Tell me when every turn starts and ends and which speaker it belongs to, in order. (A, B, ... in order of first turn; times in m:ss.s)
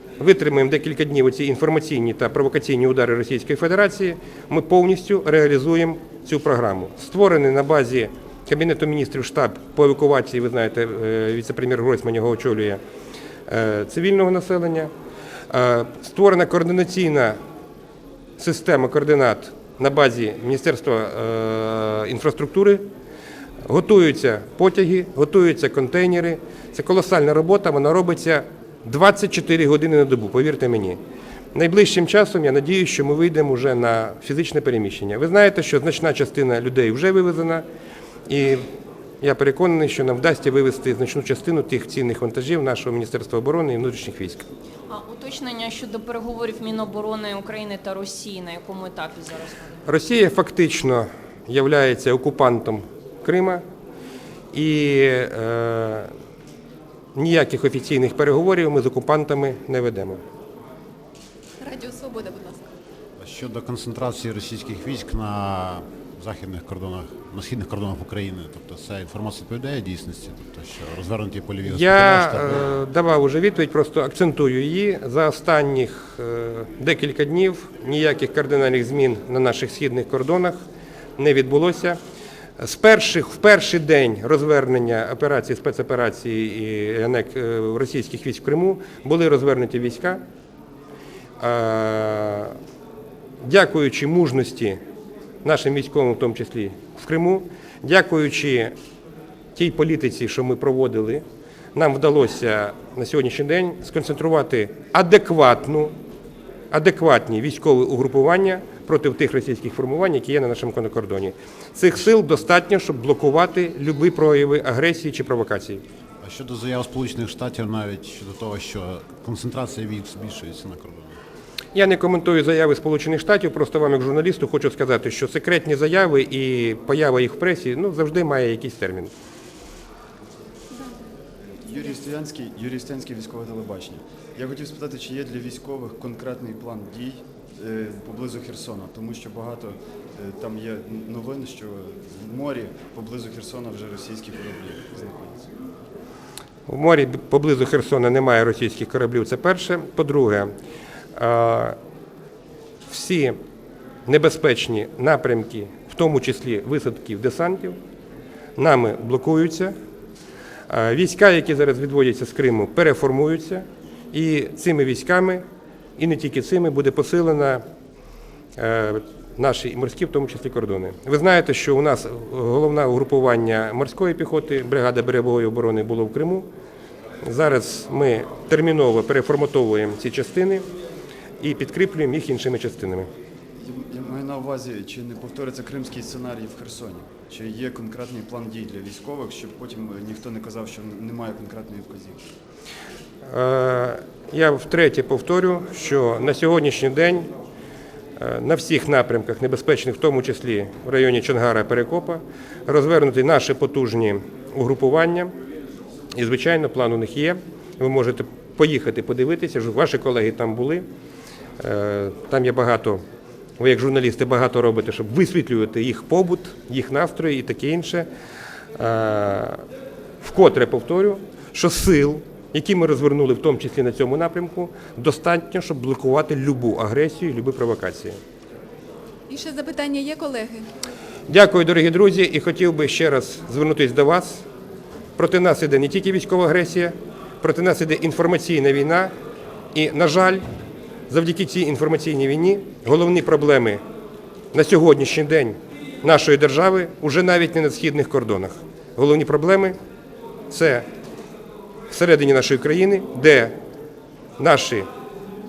0:00.2-0:12.8 A
0:13.5-0:14.9 A
0:15.5-0:17.4 A
0:18.4-0:22.8 A
0:23.6-0:31.0 A
0:31.5-0:37.6 A
0:38.3-0:38.6 A
0:39.2-0:44.5 A
0:44.9-0:49.8 B
0:49.8-0:53.6 A
0:54.5-0:56.1 A
0:57.1-1:00.2 A
1:01.6-1:02.7 C
1:03.2-1:12.6 D
1:11.6-1:20.6 A
1:21.2-1:22.0 A
1:22.6-1:30.2 A
1:31.4-1:32.5 A
1:33.4-1:34.8 A
1:35.4-1:38.7 A
1:39.5-1:41.2 A
1:41.7-1:45.9 A
1:46.7-1:55.8 A
1:56.2-2:01.2 D
2:01.7-2:09.1 A
2:11.5-2:25.5 E
2:26.7-2:30.5 A
2:31.2-2:31.8 A
2:32.9-2:33.4 A
2:34.0-2:37.8 A
2:38.6-2:39.7 A
2:40.7-2:45.4 A
2:46.0-2:47.6 A
2:48.6-2:56.5 A
2:57.2-3:00.6 A
3:01.4-3:03.1 A
3:03.6-3:12.2 E
3:13.3-3:17.3 A
3:18.2-3:25.3 A
3:26.2-3:30.8 A
3:31.6-3:33.0 A
3:33.6-3:38.1 A
3:38.8-3:39.6 A
3:40.2-3:48.2 A
3:49.3-3:50.7 C
3:51.3-3:54.4 A
3:55.2-3:59.1 A
3:59.7-4:00.4 A
4:01.1-4:03.8 A
4:04.5-4:09.8 A
4:10.5-4:10.8 A
4:11.9-4:13.5 A
4:14.4-4:14.8 A